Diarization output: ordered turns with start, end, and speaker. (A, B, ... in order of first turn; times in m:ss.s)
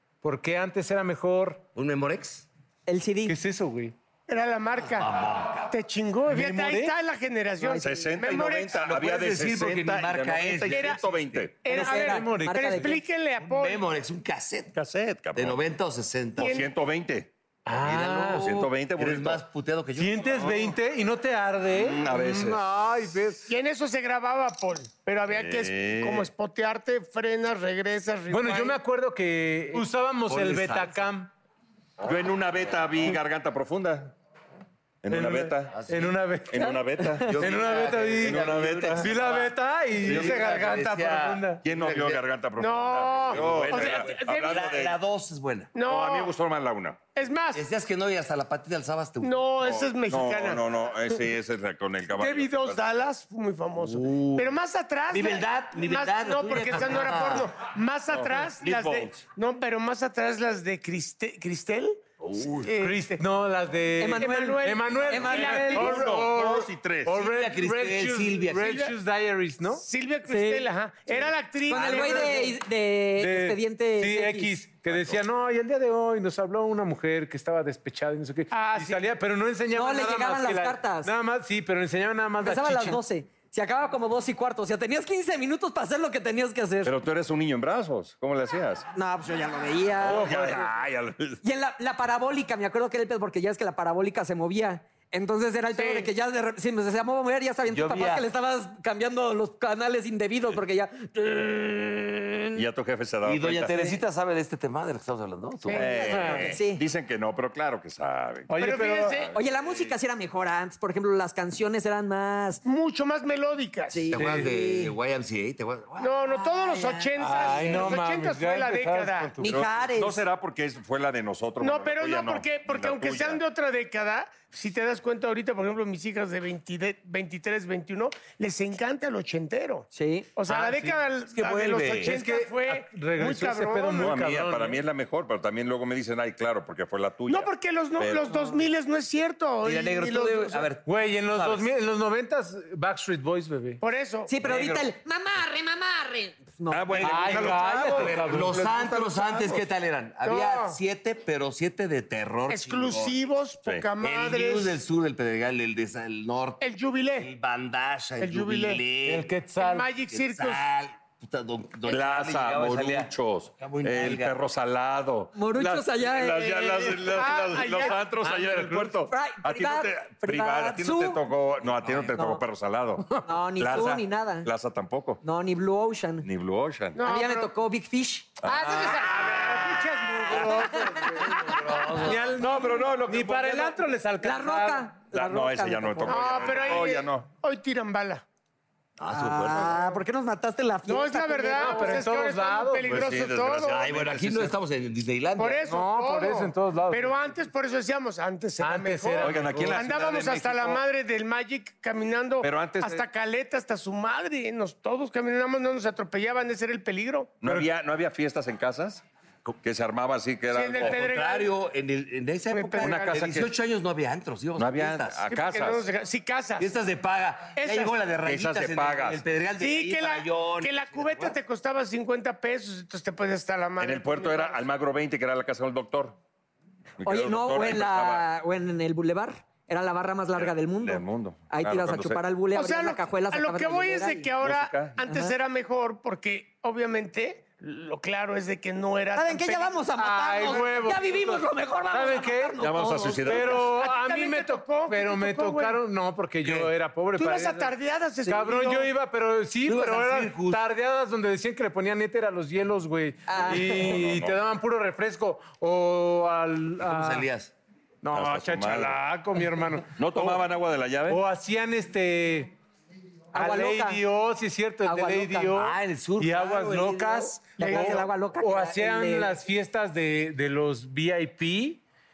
0:00.2-0:01.6 A
0:01.8-0:02.5 B
0:02.9-0:03.4 C
0:03.3-0:04.0 A
0:04.3-0:05.1 D
0:04.8-0:05.7 B
0:05.7-0:08.8 D
0:06.3-0:07.0 A
0:07.6-0:08.1 C
0:07.8-0:11.7 E
0:08.7-0:11.4 B
0:10.7-0:13.8 D
0:11.7-0:13.0 A
0:11.7-0:13.0 C
0:13.4-0:14.8 B
0:14.8-0:15.6 E
0:15.3-0:16.6 B
0:16.4-0:17.3 E
0:16.4-0:16.7 D
0:17.7-0:18.6 A
0:17.7-0:20.5 B
0:18.3-0:19.4 E
0:20.0-0:23.5 A
0:21.7-0:22.8 E
0:23.5-0:28.8 D
0:25.3-0:26.3 E
0:28.3-0:31.3 A
0:30.2-0:31.1 B
0:32.0-0:34.2 E
0:35.0-0:35.8 E
0:35.1-0:38.5 A
0:35.7-0:36.3 B
0:36.5-0:39.1 E
0:37.2-0:42.2 B
0:39.0-0:41.6 A
0:40.0-0:40.4 E
0:41.6-0:45.0 E
0:42.6-0:44.6 D
0:43.3-0:45.7 B
0:45.7-0:46.4 D
0:45.8-0:47.1 E
0:47.1-0:47.7 D
0:47.5-0:49.4 B
0:49.2-0:50.7 D
0:49.6-0:52.8 E
0:52.1-1:03.2 D
0:53.8-0:54.5 B
0:55.1-0:57.6 B
0:58.1-0:59.2 E
1:02.2-1:02.7 B
1:02.8-1:09.8 A
1:04.0-1:06.0 C
1:04.1-1:06.2 D
1:04.9-1:07.2 E
1:07.1-1:09.0 B
1:08.6-1:08.9 D
1:09.7-1:12.6 D
1:10.3-1:10.7 C
1:11.7-1:14.6 C
1:11.9-1:12.5 A
1:13.2-1:23.0 A
1:14.8-1:15.2 E
1:18.5-1:19.1 D
1:19.7-1:21.1 C
1:22.4-1:26.9 C
1:26.8-1:28.8 E
1:29.0-1:30.4 C
1:30.0-1:31.4 E
1:30.1-1:30.7 A
1:31.4-1:42.2 C
1:35.7-1:36.1 B
1:37.7-1:38.3 B
1:41.5-1:41.8 B
1:42.6-1:44.0 E
1:43.2-1:46.6 B
1:45.7-1:46.3 D
1:45.7-1:49.9 E
1:46.2-1:46.8 C
1:48.5-1:49.2 A
1:48.6-1:49.3 D
1:49.3-1:52.6 C
1:52.6-1:54.1 D
1:53.9-1:54.9 C
1:54.1-1:58.0 B
1:54.1-1:54.5 A
1:56.0-1:59.4 D
1:57.2-1:59.6 A
1:59.4-2:00.2 C
1:59.4-2:03.4 E
2:01.6-2:14.2 D
2:09.9-2:10.3 C
2:10.5-2:12.2 B
2:12.0-2:14.8 A
2:14.0-2:18.3 E
2:17.3-2:20.7 D
2:18.3-2:18.6 C
2:19.6-2:21.7 B
2:20.8-2:23.8 A
2:23.8-2:24.3 D
2:24.3-2:27.5 C
2:24.4-2:24.9 B
2:26.7-2:29.6 E
2:26.9-2:33.2 B
2:27.0-2:28.6 A
2:30.2-2:30.8 D
2:32.5-2:34.8 D
2:34.0-2:36.6 B
2:36.6-2:37.3 D
2:37.2-2:39.4 B
2:38.2-2:38.8 D
2:39.0-2:39.9 A
2:39.6-2:40.7 D
2:40.0-2:44.4 B
2:41.9-2:55.2 E
2:45.4-2:47.3 C
2:47.1-2:48.0 D
2:47.5-2:49.0 A
2:49.1-2:51.3 C
2:52.1-2:52.4 C
2:53.2-2:54.5 C
2:55.2-2:56.3 C
2:56.2-2:57.0 E
2:57.0-2:57.5 D
2:57.0-2:58.3 C
2:58.4-3:01.0 E
2:58.5-3:04.9 A
3:01.1-3:02.4 B
3:02.4-3:03.8 E
3:04.2-3:06.6 C
3:05.1-3:07.3 E
3:06.1-3:08.2 D
3:09.0-3:10.0 B
3:09.1-3:12.0 C
3:10.9-3:13.8 D
3:11.6-3:13.0 A
3:12.8-3:14.6 E
3:13.7-3:15.7 B
3:15.4-3:27.4 D
3:15.7-3:17.3 A
3:18.6-3:19.8 A
3:19.2-3:20.8 E
3:22.4-3:23.0 E
3:27.4-3:29.0 E
3:27.4-3:27.7 A
3:29.6-3:31.1 E
3:30.5-3:31.6 D
3:30.8-3:35.2 B
3:32.5-3:33.3 D
3:32.8-3:33.5 E
3:34.6-3:35.8 E
3:35.3-3:36.7 D
3:36.6-3:41.4 B
3:37.6-3:37.9 D
3:38.2-3:39.2 E
3:39.6-3:44.6 D
3:43.8-3:46.2 E
3:47.0-3:48.3 E
3:47.0-3:54.3 C
3:50.4-3:52.2 E
3:52.5-3:59.8 D
3:54.4-3:55.0 E
3:55.0-3:55.3 C
3:59.2-4:03.7 C
4:00.0-4:07.7 A
4:02.6-4:03.8 E
4:03.7-4:05.8 D
4:07.2-4:08.9 D
4:08.3-4:17.3 A
4:09.6-4:10.6 B
4:13.3-4:14.0 C
4:13.5-4:14.4 E
4:16.8-4:17.5 B
4:18.0-4:20.5 A
4:18.1-4:19.0 E
4:20.0-4:21.2 E
4:21.1-4:22.6 A
4:23.3-4:31.8 A
4:23.3-4:24.0 C
4:24.8-4:25.5 C
4:25.5-4:27.8 B
4:27.6-4:28.0 D
4:27.6-4:29.4 C